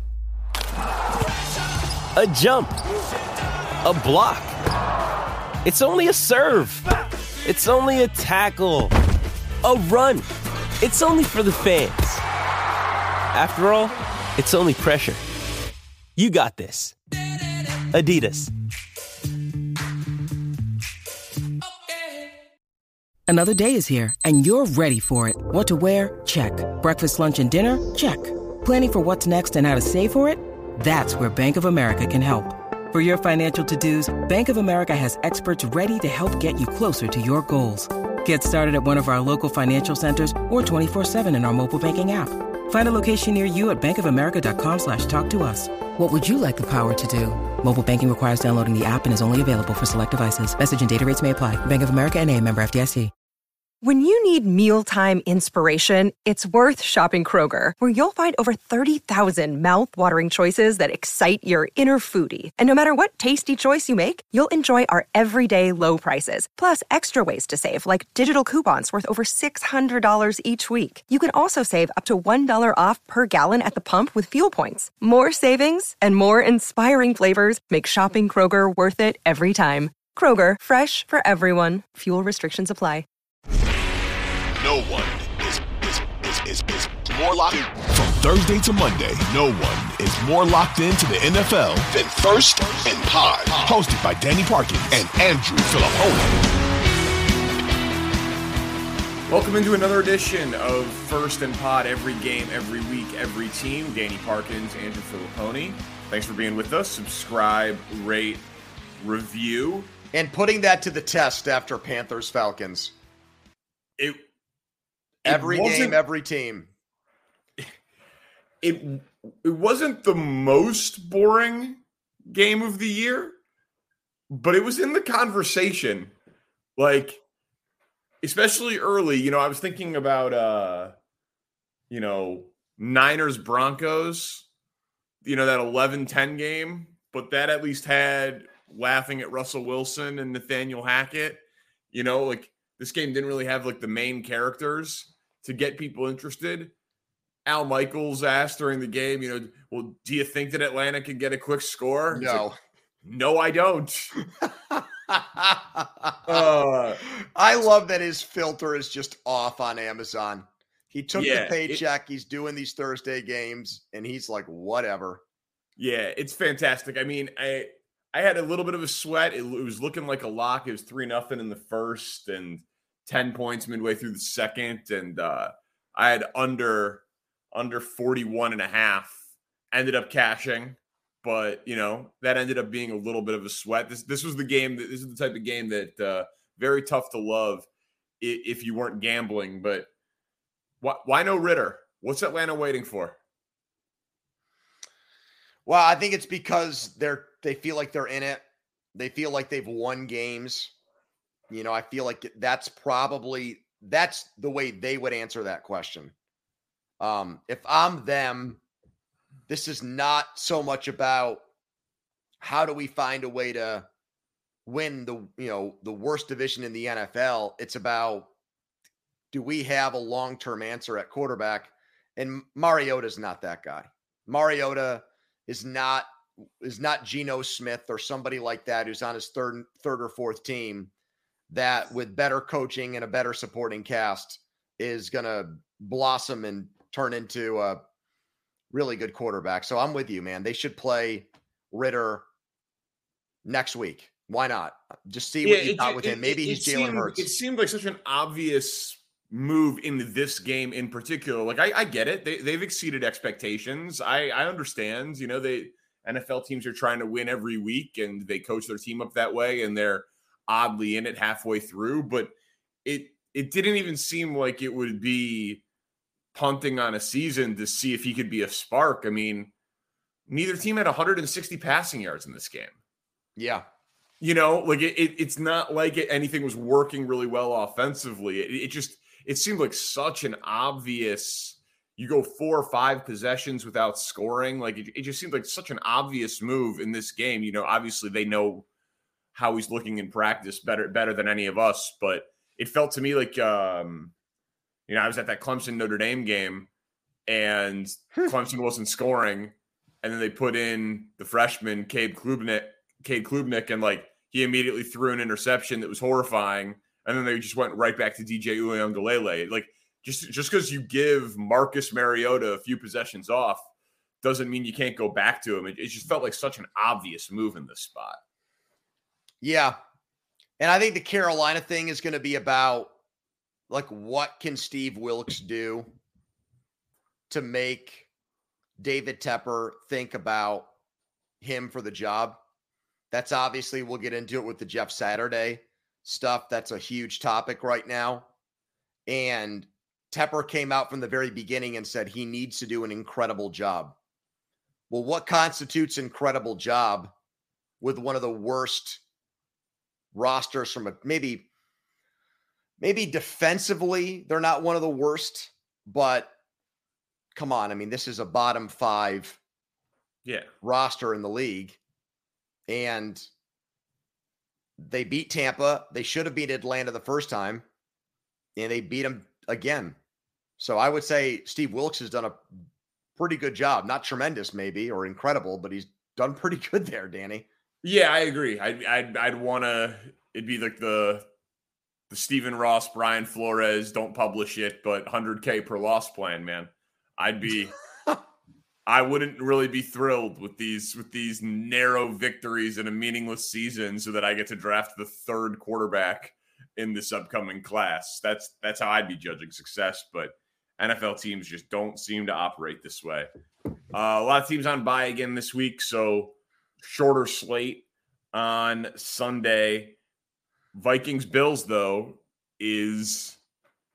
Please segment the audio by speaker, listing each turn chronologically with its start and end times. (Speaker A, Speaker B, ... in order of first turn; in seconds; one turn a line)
Speaker A: 2.2-2.7
Speaker B: 2.3-2.7
Speaker A: 3.9-4.5
Speaker B: 3.9-4.5
Speaker A: 5.7-6.8
Speaker B: 5.7-6.8
Speaker B: 7.5-8.5
Speaker A: 7.5-8.9
Speaker B: 9.6-10.3
Speaker A: 9.7-10.1
Speaker A: 10.8-12.2
Speaker B: 10.8-11.9
Speaker A: 13.3-15.2
Speaker A: 16.2-16.9
Speaker B: 16.3-16.9
Speaker A: 17.9-18.5
Speaker B: 18.0-18.2
Speaker B: 23.3-53.1
Speaker C: 53.8-83.1
Speaker D: 84.6-96.4
Speaker E: 99.3-108.4
Speaker E: 109.0-109.9
Speaker F: 110.1-112.9
Speaker E: 114.0-114.2
Speaker E: 115.2-116.0
Speaker F: 115.3-116.7
Speaker E: 118.6-123.3
Speaker E: 124.3-126.1
Speaker E: 126.8-127.2
Speaker E: 128.2-130.9
Speaker E: 131.9-134.5
Speaker E: 135.2-146.7
Speaker E: 147.5-152.5
Speaker F: 152.1-152.6
Speaker E: 153.0-154.2
Speaker F: 154.4-156.5
Speaker E: 156.3-157.0
Speaker F: 157.0-165.2
Speaker E: 161.2-161.8
Speaker E: 165.8-179.2
Speaker E: 179.7-187.7
Speaker E: 188.2-189.9
Speaker E: 190.8-193.2
Speaker F: 195.7-198.4
Speaker F: 198.9-200.7
Speaker F: 201.5-206.1
Speaker F: 207.0-208.6
Speaker F: 209.5-211.4
Speaker F: 212.4-213.9
Speaker F: 214.7-218.3
Speaker F: 219.3-230.9
Speaker F: 231.5-237.8
Speaker F: 238.7-242.2
Speaker F: 243.4-247.3
Speaker E: 245.4-262.3
Speaker E: 262.9-265.6
Speaker E: 266.3-269.5
Speaker E: 270.3-272.8
Speaker F: 273.4-273.7
Speaker E: 274.2-288.7
Speaker E: 289.3-294.1
Speaker E: 294.9-296.7
Speaker E: 297.3-313.6
Speaker E: 314.2-318.2
Speaker F: 319.4-319.8
Speaker F: 320.6-322.9
Speaker F: 323.7-325.9
Speaker F: 327.3-328.1
Speaker F: 328.8-330.7
Speaker F: 331.4-332.4
Speaker F: 333.1-338.3
Speaker F: 339.1-343.9
Speaker F: 344.9-347.1
Speaker F: 347.8-349.0
Speaker F: 350.1-351.5
Speaker F: 352.8-356.3
Speaker F: 357.4-359.4
Speaker E: 360.2-360.5
Speaker F: 360.6-361.8
Speaker F: 362.7-363.3
Speaker F: 364.8-367.6
Speaker F: 368.6-370.0
Speaker F: 370.6-372.4
Speaker F: 373.2-377.5
Speaker E: 377.8-381.3
Speaker E: 382.1-387.8
Speaker E: 388.9-403.3
Speaker E: 403.9-410.0
Speaker E: 410.7-413.4